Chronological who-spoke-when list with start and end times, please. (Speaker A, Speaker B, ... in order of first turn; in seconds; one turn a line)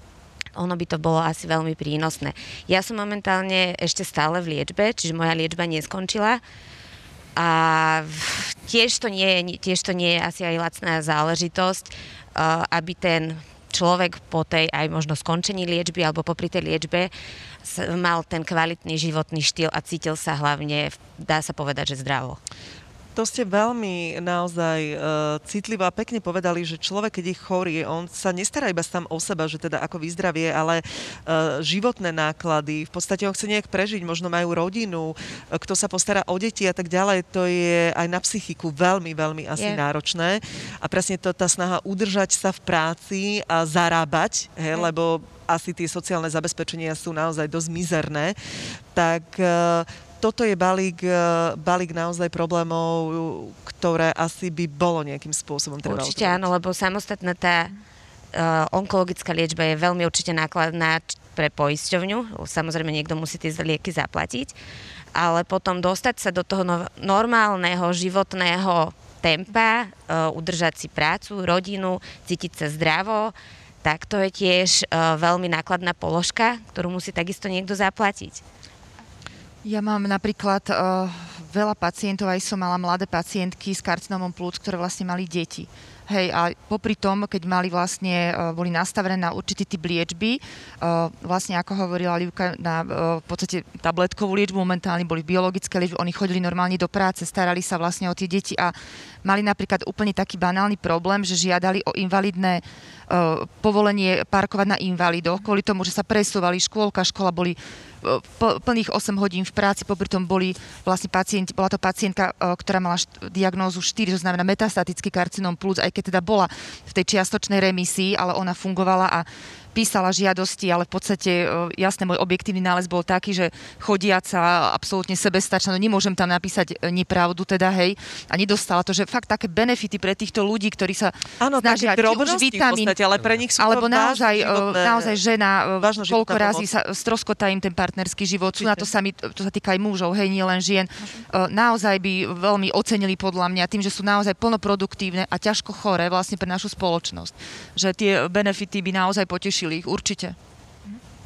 Speaker A: 0.6-6.4
Speaker A: 7.4-17.1
Speaker A: 17.6-22.4
Speaker B: 23.2-48.4
Speaker A: 39.6-39.8
Speaker B: 49.0-56.5
Speaker A: 55.9-57.7
Speaker A: 58.3-64.5
Speaker A: 65.1-78.4
Speaker C: 79.6-132.9
Speaker B: 131.4-135.2
Speaker C: 133.6-150.4
Speaker B: 135.8-136.7
Speaker B: 138.6-138.8